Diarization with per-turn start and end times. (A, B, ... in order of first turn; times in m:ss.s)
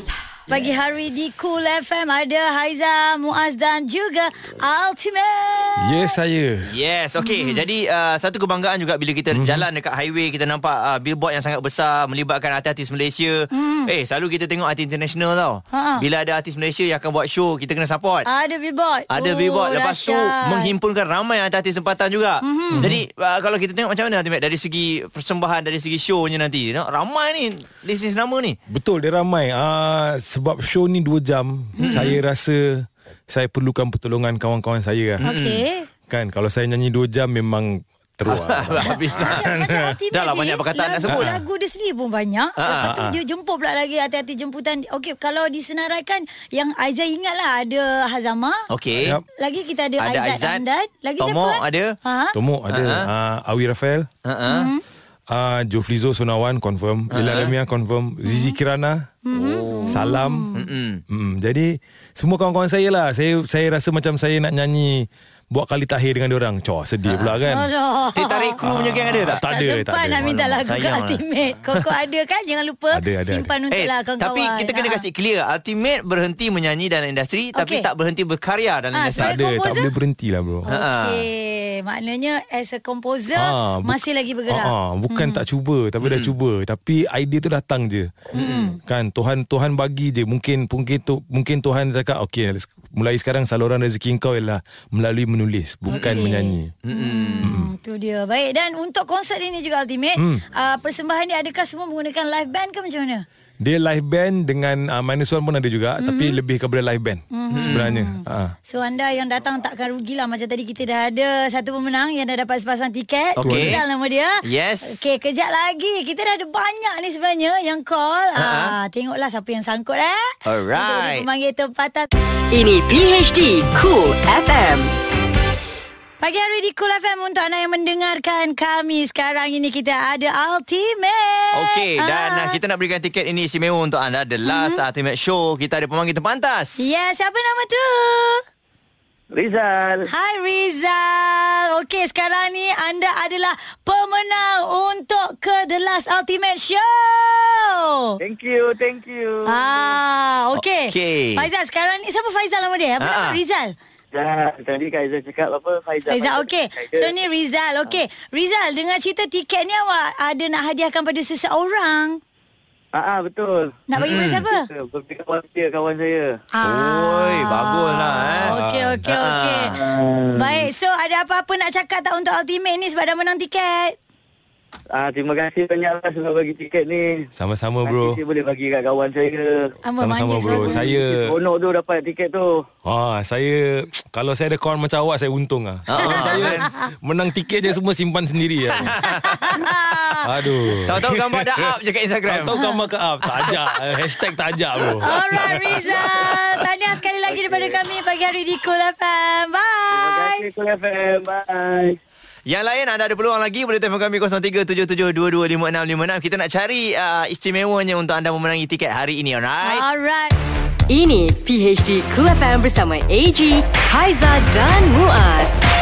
0:00.5-0:06.2 A
0:05.8-0:06.7 B
0:06.7-0:18.3 C
0:07.2-0:07.6 A
0:09.3-0:09.7 B
0:13.5-0:13.9 A
0:15.7-0:16.0 A
0:18.3-0:20.7 A
0:19.1-0:28.6 C
0:22.4-0:22.9 A
0:22.7-0:23.0 B
0:28.7-0:35.2 B
0:31.8-0:32.1 A
0:31.8-0:32.2 C
0:35.2-0:35.6 C
0:35.2-0:35.9 A
0:36.1-0:39.9 B
0:38.3-0:39.5 C
0:38.8-0:48.6 A
0:40.1-0:41.4 C
0:41.1-0:41.4 B
0:42.6-0:42.9 C
0:42.8-0:43.2 B
0:48.7-0:49.2 C
0:49.0-0:49.2 B
0:49.4-0:52.4 A
0:50.0-0:50.6 C
0:51.2-0:52.0 C
0:52.3-0:54.1 B
0:52.7-0:53.1 C
0:54.2-0:54.7 C
0:54.5-0:54.8 A
0:55.3-0:59.2 B
0:57.1-0:57.5 C
0:58.2-0:58.6 A
0:59.2-1:00.6 A
0:59.4-1:00.0 C
0:59.9-1:00.5 B
1:00.6-1:01.0 C
1:01.1-1:07.7 B
1:07.1-1:07.4 C
1:07.5-1:08.6 A
1:08.2-1:09.4 C
1:08.6-1:10.6 B
1:09.4-1:15.0 A
1:10.5-1:11.8 C
1:12.9-1:13.5 B
1:13.7-1:19.4 C
1:17.6-1:17.9 A
1:19.0-1:19.9 A
1:19.2-1:20.7 B
1:20.7-1:21.2 C
1:20.7-1:25.4 A
1:23.4-1:28.3 B
1:26.0-1:26.3 C
1:28.3-1:28.7 C
1:28.3-1:28.8 A
1:28.8-1:36.7 B
1:35.9-1:43.2 A
1:36.0-1:36.2 C
1:36.8-1:37.5 C
1:37.4-1:37.7 B
1:40.2-1:40.4 B
1:43.6-1:48.6 B
1:46.0-1:46.4 A
1:47.3-2:02.1 A
1:47.5-1:47.9 C
1:53.4-1:53.8 C
1:53.4-1:53.8 B
1:54.4-1:55.0 C
1:58.4-1:58.7 C
2:00.5-2:01.3 C
2:02.5-2:04.9 D
2:06.2-2:12.6 A
2:11.5-2:16.9 C
2:14.5-2:14.8 A
2:16.8-2:18.4 A
2:19.3-2:20.1 E
2:20.1-2:28.2 A
2:28.2-2:30.0 E
2:29.5-2:33.7 A
2:30.6-2:31.5 C
2:33.0-2:33.4 C
2:34.1-2:37.1 E
2:36.1-2:42.2 A
2:42.9-2:43.8 E
2:43.9-2:44.7 A
2:44.0-2:44.4 C
2:44.5-2:46.3 E
2:46.5-2:49.8 A
2:46.6-2:48.5 C
2:48.4-2:49.0 B
2:49.1-2:49.8 C
2:49.8-2:50.4 E
2:50.4-2:54.0 A
2:55.0-2:57.3 E
2:57.4-2:58.2 B
2:57.8-2:59.7 E
2:59.8-3:00.8 A
3:00.0-3:01.3 B
3:00.6-3:02.6 E
3:02.8-3:09.0 B
3:05.9-3:06.6 C
3:06.4-3:06.7 A
3:08.8-3:09.6 C
3:09.0-3:10.3 A
3:10.2-3:11.7 B
3:10.9-3:12.6 C
3:12.3-3:15.8 B
3:12.5-3:12.8 A
3:15.0-3:20.5 A
3:17.3-3:17.8 E
3:19.9-3:22.0 E
3:22.5-3:29.8 C
3:29.6-3:30.3 A
3:30.9-3:35.6 D